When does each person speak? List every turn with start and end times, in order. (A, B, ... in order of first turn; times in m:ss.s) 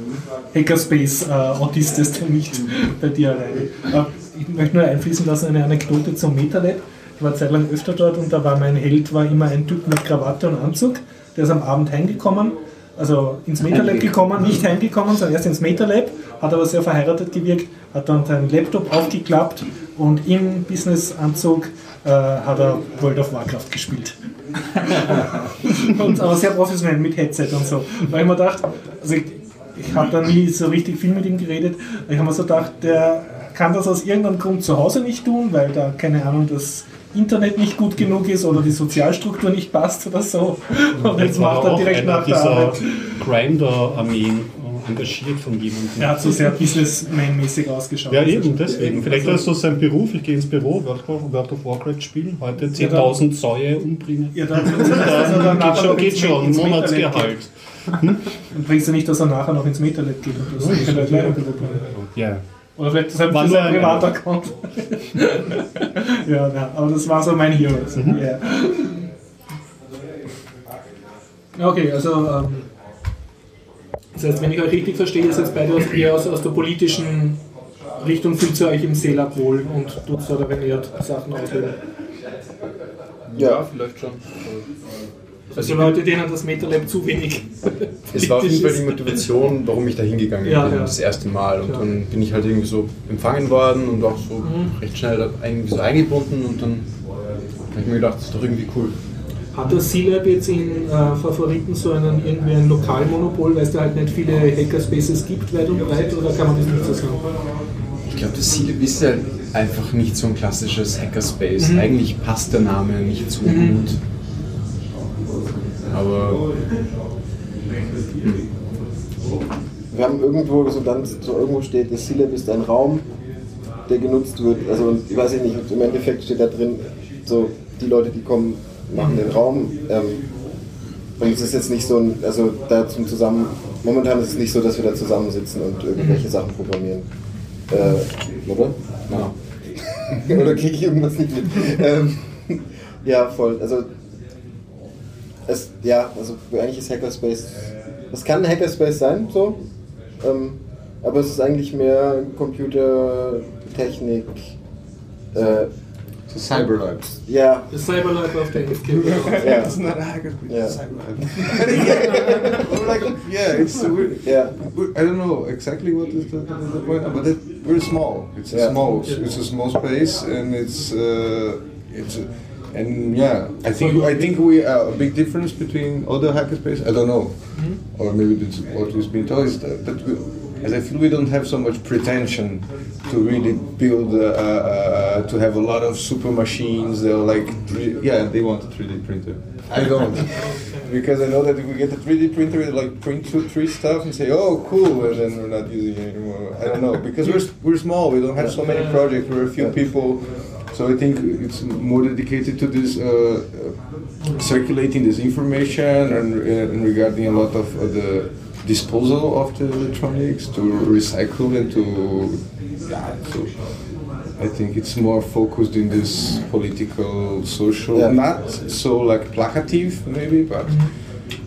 0:00.5-0:24.2 A
0:24.7-0:43.1 A
0:41.0-0:46.8 B
0:46.0-0:49.5 A
0:48.1-0:58.4 B
0:52.8-0:53.2 A
0:54.3-0:57.4 A
0:58.4-1:01.9 A
1:00.5-1:02.4 B
1:02.8-1:09.1 A
1:03.2-1:04.2 B
1:07.9-1:08.2 B
1:11.5-1:12.7 A
1:14.1-1:17.4 A
1:18.0-1:21.8 A
1:23.3-1:24.7 C
1:23.3-1:23.6 D
1:25.5-1:29.3 A
1:25.5-1:26.0 C
1:28.1-1:37.1 C
1:30.4-1:31.8 A
1:34.4-1:34.7 A
1:37.7-1:39.0 C
1:39.5-1:47.3 A
1:48.1-1:54.0 C
1:51.6-1:51.9 A
1:53.4-1:53.8 A
1:55.8-1:56.5 C
1:58.2-1:58.4 C
1:59.9-2:03.1 D
2:03.8-2:10.5 D
2:09.0-2:09.3 A
2:11.2-2:23.9 D
2:16.0-2:16.2 A
2:19.1-2:19.3 C
2:20.1-2:20.4 C
2:25.4-2:29.6 D
2:30.2-2:34.5 D
2:35.3-2:35.7 D
2:36.3-2:37.2 E
2:37.2-2:37.7 D
2:37.7-2:39.7 A
2:38.9-3:41.0 E
2:39.3-2:39.8 D
2:40.5-2:40.8 D
2:41.8-2:42.2 A
2:44.2-2:44.6 D
2:48.5-2:48.8 D
2:48.9-2:49.2 A
2:53.8-2:54.3 A
2:57.5-2:57.8 A
3:10.2-3:11.0 A
3:18.4-3:19.8 D
3:40.6-3:40.9 A